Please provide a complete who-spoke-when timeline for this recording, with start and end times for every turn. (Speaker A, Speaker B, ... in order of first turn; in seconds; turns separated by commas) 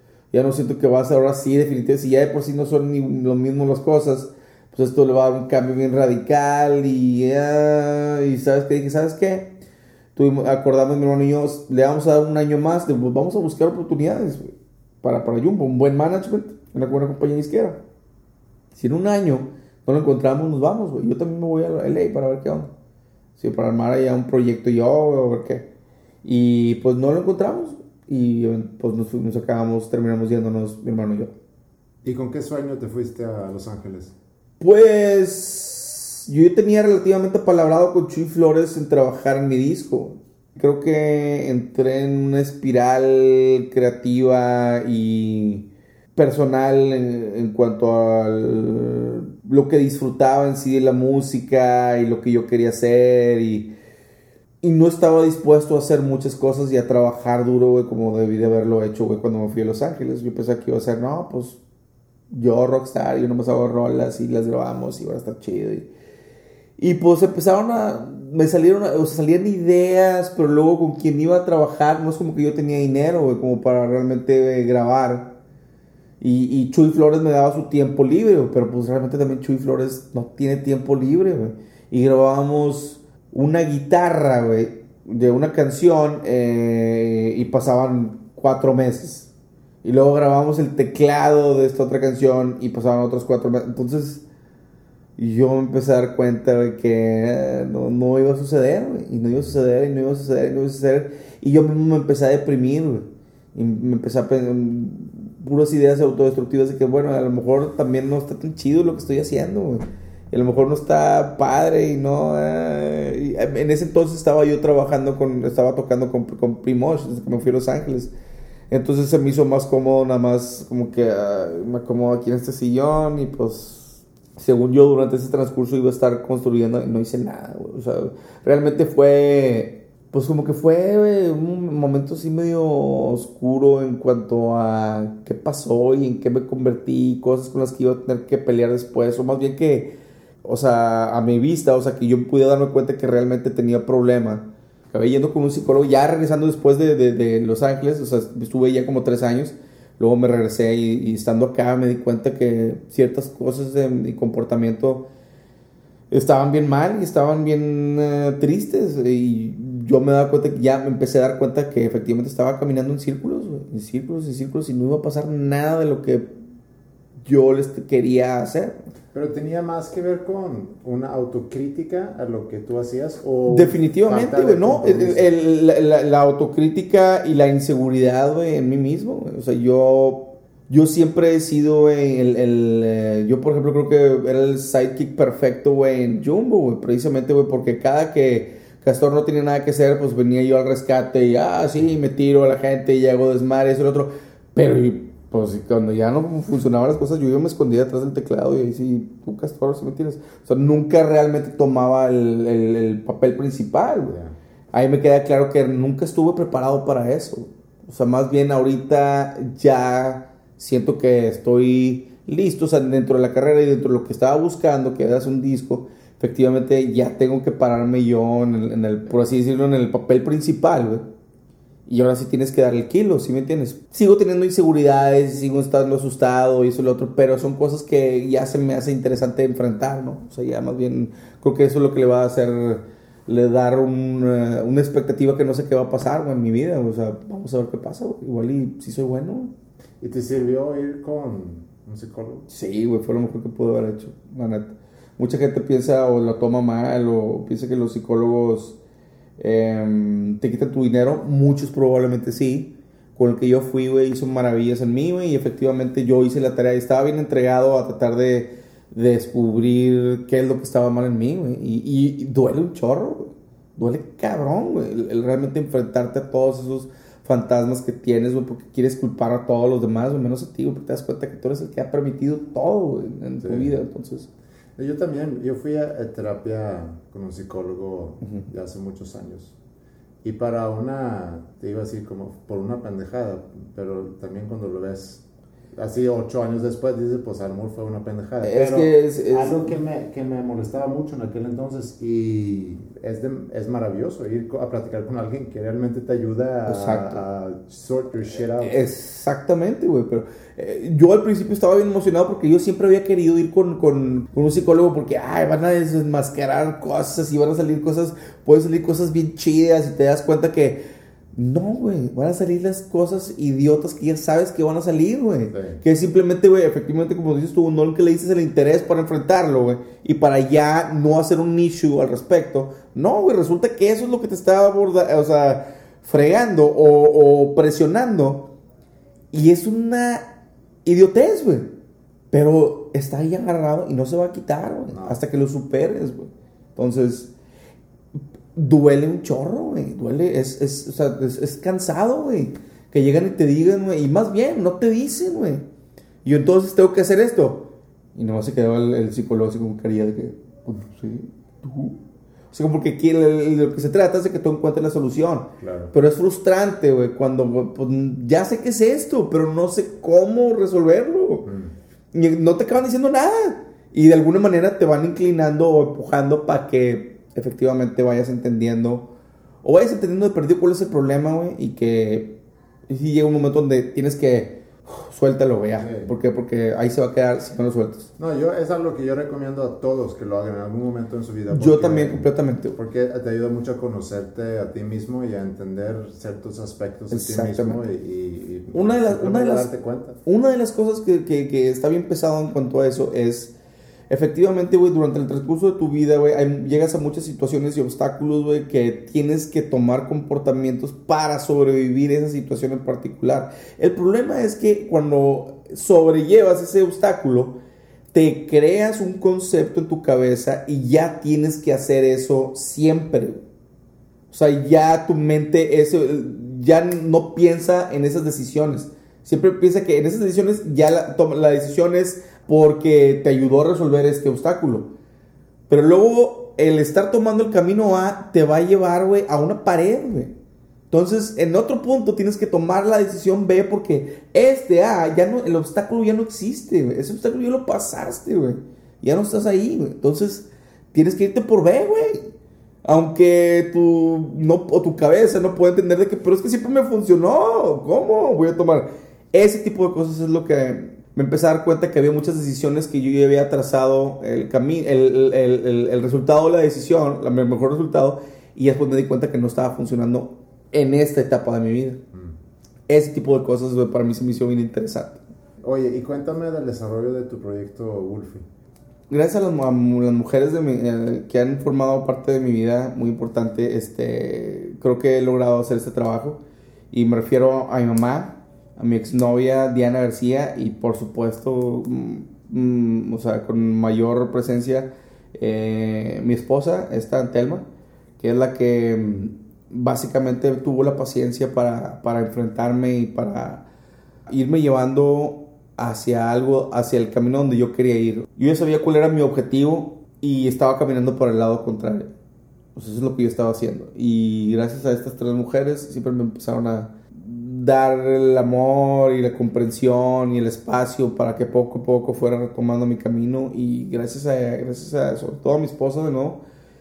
Speaker A: 0.3-9.6, Speaker A: 10.1-14.5, Speaker A: 15.0-17.8, Speaker A: 18.7-22.7, Speaker A: 23.4-25.7, Speaker A: 26.2-31.3, Speaker B: 32.0-34.1, Speaker A: 34.6-53.7, Speaker A: 54.6-61.6, Speaker A: 62.3-65.9, Speaker A: 66.8-75.3, Speaker A: 76.2-89.3, Speaker A: 89.8-94.2, Speaker A: 95.2-118.1, Speaker A: 118.7-155.1, Speaker A: 156.1-166.3, Speaker A: 167.2-168.8, Speaker B: 169.1-175.3, Speaker A: 173.5-204.2, Speaker B: 204.1-204.3, Speaker A: 204.7-221.1, Speaker A: 221.9-239.5, Speaker B: 240.0-242.5, Speaker A: 242.5-248.8, Speaker A: 249.4-274.3, Speaker B: 273.4-273.7, Speaker B: 274.8-279.6, Speaker B: 280.2-298.8, Speaker A: 288.4-289.7, Speaker A: 296.7-297.2, Speaker A: 298.6-310.8, Speaker A: 311.3-328.5, Speaker B: 315.5-315.8, Speaker A: 329.3-330.3, Speaker A: 330.8-331.7, Speaker A: 332.3-337.3, Speaker B: 334.9-335.2, Speaker A: 338.6-345.6, Speaker A: 346.2-352.0, Speaker A: 352.5-361.5, Speaker B: 355.6-355.9, Speaker B: 361.5-361.7, Speaker A: 362.1-369.1, Speaker A: 369.6-372.4, Speaker A: 372.9-378.1, Speaker B: 375.8-376.1, Speaker B: 378.2-390.2, Speaker A: 381.5-382.8, Speaker A: 387.1-387.8, Speaker A: 388.7-389.7, Speaker A: 390.2-393.6, Speaker A: 394.1-407.6, Speaker A: 408.1-413.4, Speaker A: 414.3-424.9, Speaker A: 425.7-430.3, Speaker A: 430.9-442.3, Speaker A: 442.8-462.0, Speaker A: 462.9-465.2, Speaker B: 465.6-468.4, Speaker A: 469.1-476.4, Speaker A: 476.9-487.6, Speaker A: 488.2-493.6, Speaker A: 494.3-502.1, Speaker A: 502.7-516.4